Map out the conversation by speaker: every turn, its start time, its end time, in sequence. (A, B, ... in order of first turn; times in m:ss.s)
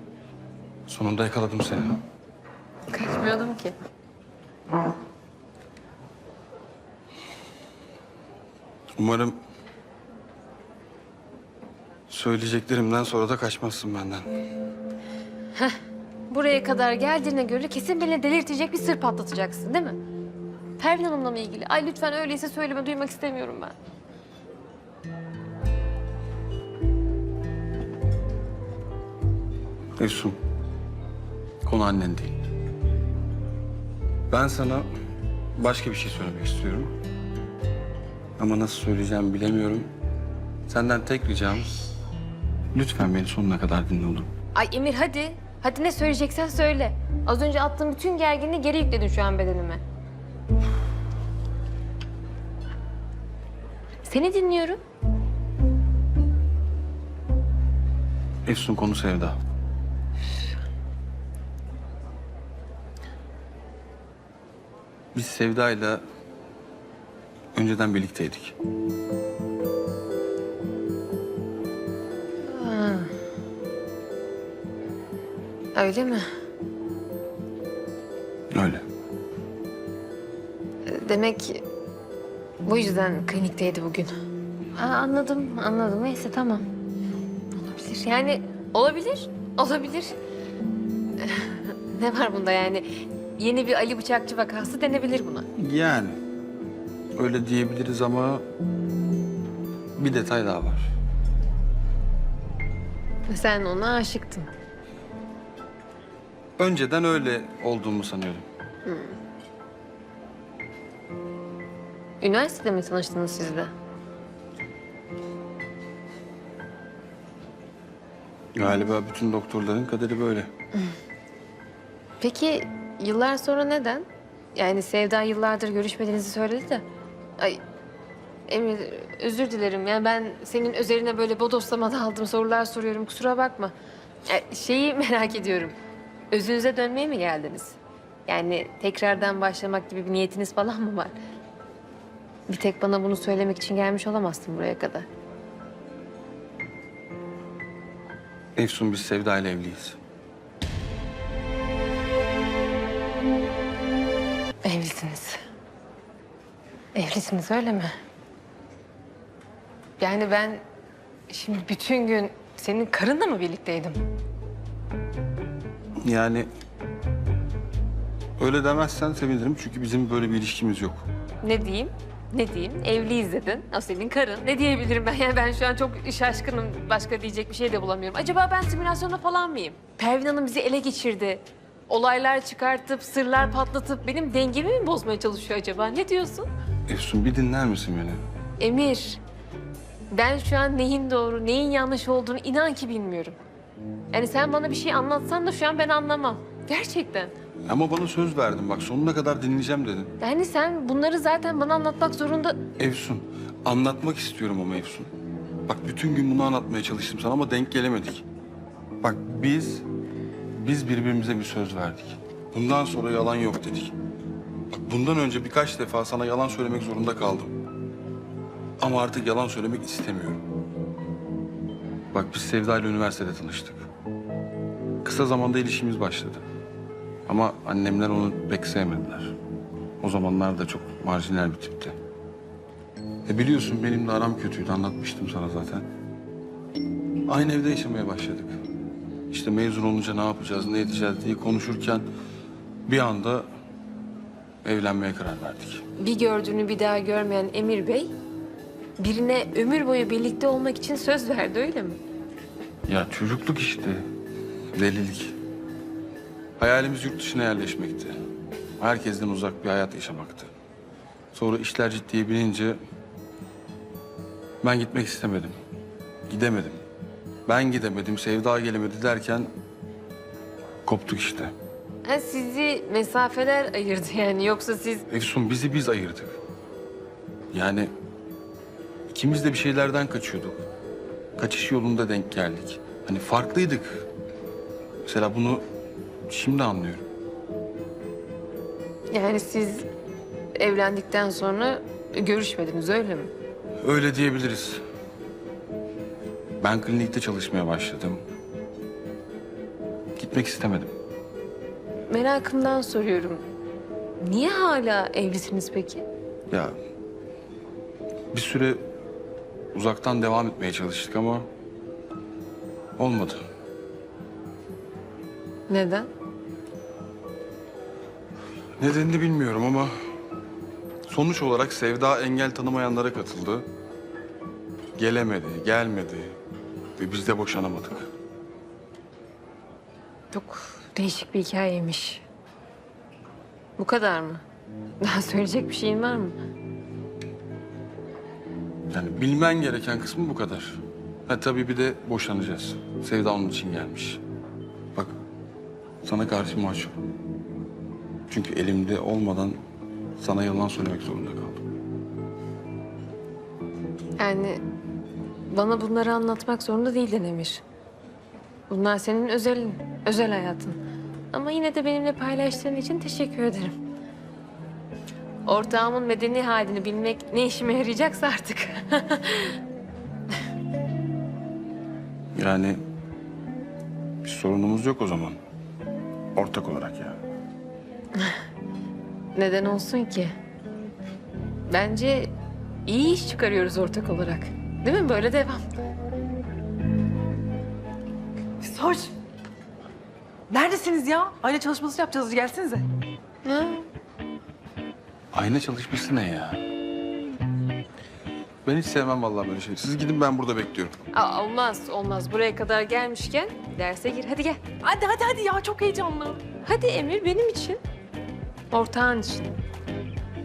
0:00.9-0:02.0 A
0:02.9-0:03.7 B
0:09.0-0:09.4 A
0:12.1-0:14.3 A
0:16.3-0:20.0 B
0:20.8-0:23.7 B
0:30.0-0:30.4 A
0:31.6-0:32.4 A
0:34.3-0:34.9 A
0:35.6-0:36.9 A
0:38.4-0:39.9 A
0:40.7-0:41.7 A
0:42.7-0:44.3 A
0:44.5-0:49.8 B
0:54.0-0:54.8 B
0:58.4-0:59.4 A
1:05.1-1:06.0 A
1:07.5-1:08.6 A
1:12.5-1:13.1 B
1:15.7-1:16.2 B
1:18.5-1:18.8 A
1:20.9-1:21.6 B
1:22.6-1:24.1 B
1:24.7-1:26.6 B
1:27.6-1:30.1 B
1:31.2-1:32.8 B
1:33.4-1:35.5 B
1:35.6-1:36.2 A
1:37.1-1:38.4 A
1:40.0-1:40.9 A
1:43.3-1:44.5 B
1:46.6-1:48.5 A
1:48.8-1:49.2 B
1:52.2-1:53.7 B
1:58.5-2:00.5 A
2:02.2-2:06.8 B
2:08.5-2:13.7 B
2:14.2-2:15.7 B
2:16.3-2:17.8 B
2:18.3-2:21.1 B
2:22.5-2:25.1 B
2:28.6-2:30.0 A
2:34.6-2:35.4 B
2:36.9-2:37.9 B
2:40.0-2:40.6 B
2:41.3-2:44.0 B
2:46.0-2:46.5 A
2:48.4-2:51.0 A
2:51.4-3:06.5 B
3:06.9-3:08.2 A
3:08.6-3:09.2 B
3:10.1-3:13.4 B
3:14.1-3:17.3 B
3:17.7-3:20.1 A
3:20.2-3:22.6 B
3:22.8-3:25.1 A
3:25.7-3:28.2 A
3:29.0-3:29.8 A
3:30.6-3:33.9 A
3:34.7-3:37.5 A
3:38.8-3:40.4 A
3:42.1-3:43.9 A
3:45.0-3:46.4 A
3:47.3-3:49.4 A
3:50.0-3:52.0 A
3:53.2-3:55.8 A
3:57.2-3:58.6 A
3:59.3-4:02.1 A
4:02.8-4:03.5 A
4:04.6-4:05.8 A
4:06.0-4:08.1 B
4:09.0-4:12.0 B
4:12.9-4:14.1 A
4:14.7-4:15.3 A
4:16.6-4:18.2 A
4:18.8-4:20.5 A
4:21.3-4:22.8 A
4:24.6-4:25.6 A
4:26.3-4:26.8 A
4:27.4-4:29.5 A
4:30.8-4:31.5 A
4:32.0-4:35.0 B
4:35.1-4:36.4 A
4:37.5-4:37.9 A
4:39.1-4:40.6 A
4:41.4-4:44.0 A
4:45.0-4:45.6 A
4:46.3-4:47.0 A
4:49.1-4:49.8 B
4:50.6-4:53.3 B
4:53.8-4:54.8 A
4:56.6-4:58.2 A
5:00.2-5:00.9 A
5:02.1-5:03.4 B
5:04.2-5:06.0 B
5:06.5-5:06.8 A
5:08.3-5:08.9 A
5:09.7-5:11.5 A
5:13.0-5:13.4 A
5:15.7-5:16.1 B
5:18.8-5:19.9 A
5:21.0-5:23.6 A
5:25.0-5:26.3 A
5:27.0-5:28.1 A
5:30.3-5:32.2 B
5:33.8-5:34.4 B
5:35.0-5:36.4 B
5:38.9-5:44.2 A
5:46.0-5:46.9 A
5:48.3-5:49.6 A
5:50.2-5:51.6 A
5:54.2-5:54.6 B
5:55.5-5:57.6 B
5:58.7-6:00.8 B
6:01.3-6:03.7 B
6:05.5-6:09.6 B
6:12.3-6:12.8 A
6:14.2-6:15.4 A
6:16.3-6:17.2 A
6:19.3-6:20.3 B
6:21.7-6:22.3 B
6:22.9-6:25.6 B
6:28.6-6:29.1 C
6:30.5-6:32.8 C
6:33.4-6:33.9 B
6:35.3-6:36.6 A
6:38.6-6:40.9 A
6:41.1-6:44.6 B
6:44.8-6:46.4 C
6:46.6-6:47.8 B
6:48.7-6:49.5 B